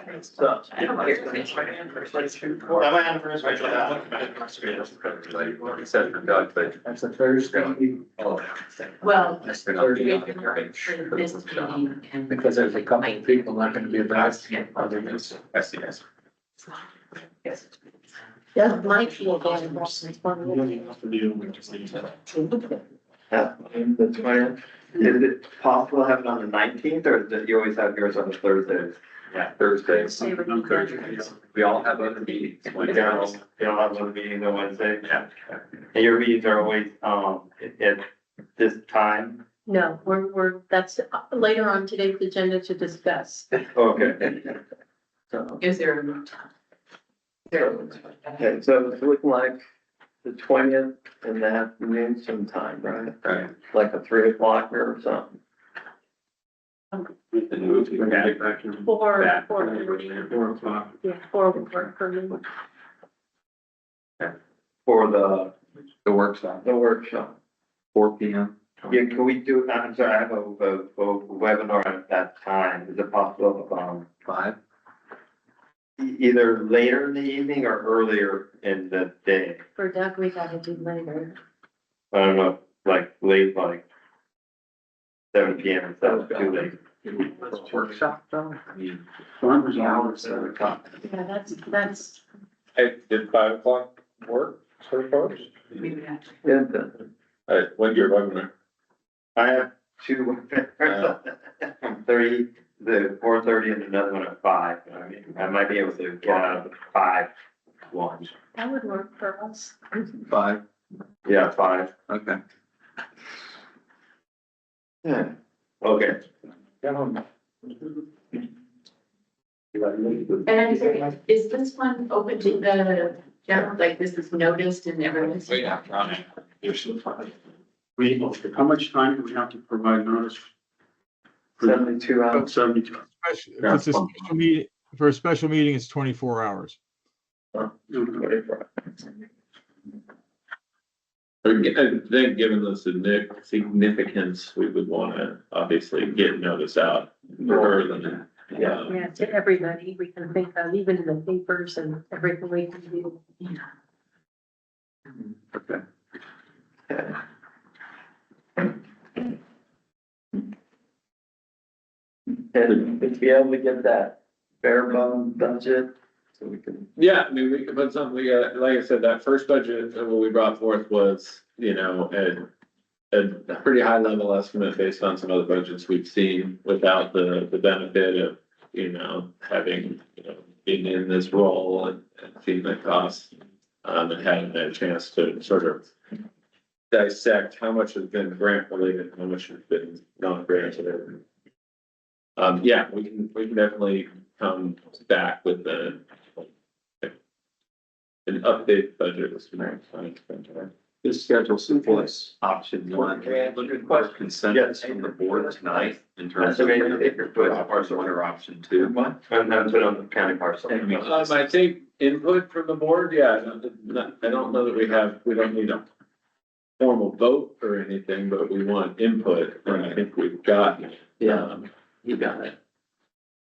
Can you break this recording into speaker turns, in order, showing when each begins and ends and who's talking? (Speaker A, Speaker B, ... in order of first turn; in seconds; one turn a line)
Speaker A: 0.3-1.6
Speaker B: 0.7-2.2
Speaker C: 0.8-1.2
Speaker A: 2.2-4.2
Speaker C: 3.6-6.9
Speaker D: 6.8-8.0
Speaker C: 7.4-8.7
Speaker B: 9.0-13.8
Speaker D: 9.0-10.9
Speaker C: 9.4-11.0
Speaker D: 12.3-15.8
Speaker C: 15.5-16.0
Speaker E: 18.6-20.9
Speaker F: 20.4-22.1
Speaker A: 23.3-28.9
Speaker C: 29.3-30.3
Speaker E: 29.8-31.3
Speaker F: 30.2-31.7
Speaker C: 31.5-33.4
Speaker A: 32.8-35.3
Speaker C: 35.1-35.3
Speaker A: 35.9-39.4
Speaker E: 39.7-43.5
Speaker A: 43.7-44.6
Speaker A: 45.3-45.6
Speaker B: 45.6-46.5
Speaker B: 47.5-48.4
Speaker A: 47.5-47.8
Speaker A: 48.4-49.6
Speaker A: 50.2-55.4
Speaker C: 53.2-53.5
Speaker F: 57.3-59.0
Speaker C: 57.5-58.4
Speaker E: 58.8-60.3
Speaker C: 59.2-60.8
Speaker F: 59.6-60.9
Speaker E: 61.0-62.4
Speaker A: 64.8-65.5
Speaker C: 66.0-66.7
Speaker A: 66.6-67.3
Speaker C: 67.9-68.9
Speaker A: 68.9-74.1
Speaker C: 74.3-74.5
Speaker A: 76.0-79.6
Speaker E: 79.8-81.3
Speaker A: 82.1-83.8
Speaker A: 85.3-86.8
Speaker C: 86.0-86.7
Speaker F: 87.1-88.0
Speaker C: 87.3-89.0
Speaker F: 89.4-90.8
Speaker E: 91.0-92.2
Speaker G: 92.7-95.4
Speaker A: 96.4-97.0
Speaker G: 97.5-98.5
Speaker A: 99.3-107.3
Speaker G: 100.8-101.1
Speaker A: 107.9-108.3
Speaker E: 108.5-110.1
Speaker C: 110.3-110.6
Speaker A: 111.2-111.9
Speaker C: 112.1-112.4
Speaker A: 115.0-116.2
Speaker B: 120.4-126.1
Speaker C: 125.5-126.1
Speaker F: 128.0-130.5
Speaker F: 131.6-133.1
Speaker A: 131.6-132.5
Speaker H: 133.2-136.8
Speaker A: 133.6-134.2
Speaker A: 137.5-138.8
Speaker F: 137.9-138.2
Speaker G: 141.4-149.0
Speaker E: 148.9-153.6
Speaker C: 155.5-155.8
Speaker A: 156.9-157.2
Speaker A: 162.5-166.9
Speaker G: 166.9-172.5
Speaker G: 173.1-183.3
Speaker G: 183.8-185.9
Speaker G: 186.9-191.2
Speaker G: 192.4-196.0
Speaker G: 198.2-200.7
Speaker C: 201.0-209.0
Speaker A: 201.9-208.2
Speaker A: 208.7-211.3
Speaker C: 210.7-210.9
Speaker G: 210.9-215.8
Speaker G: 216.8-221.7
Speaker C: 219.6-220.0
Speaker A: 221.2-221.5
Speaker A: 222.0-222.5